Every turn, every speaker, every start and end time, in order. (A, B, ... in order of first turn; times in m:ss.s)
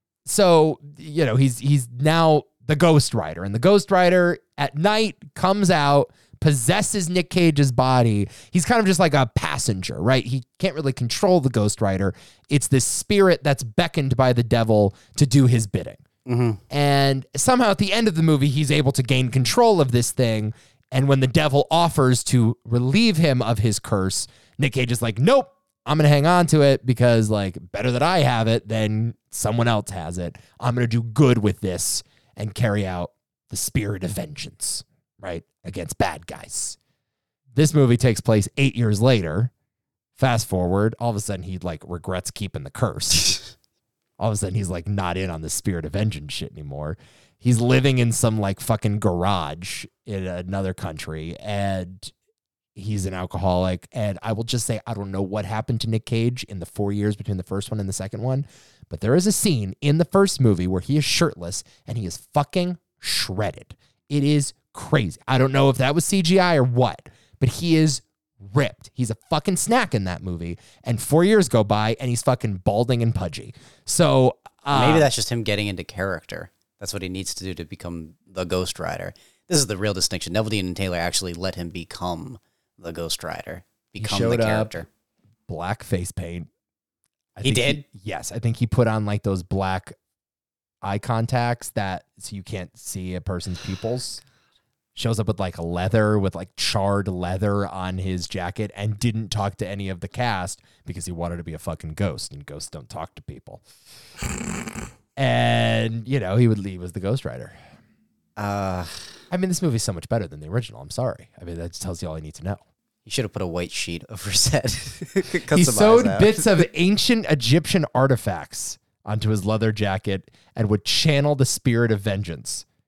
0:00.3-0:16.0 A
0:16.3-0:16.6 B
0:16.7-0:36.8 A
0:37.6-0:39.5 A
0:40.2-0:43.4 A
0:44.2-0:52.1 A
0:52.8-1:15.1 A
1:14.7-1:24.9 B
1:24.0-1:24.8 A
1:25.5-1:26.5 A
1:27.4-1:30.0 A
1:27.4-1:27.8 B
1:30.8-1:34.2 A
1:35.0-1:43.6 A
1:45.2-1:47.6 A
1:48.4-1:49.0 B
1:49.3-1:52.6 A
1:53.1-1:56.4 B
1:55.5-2:02.6 A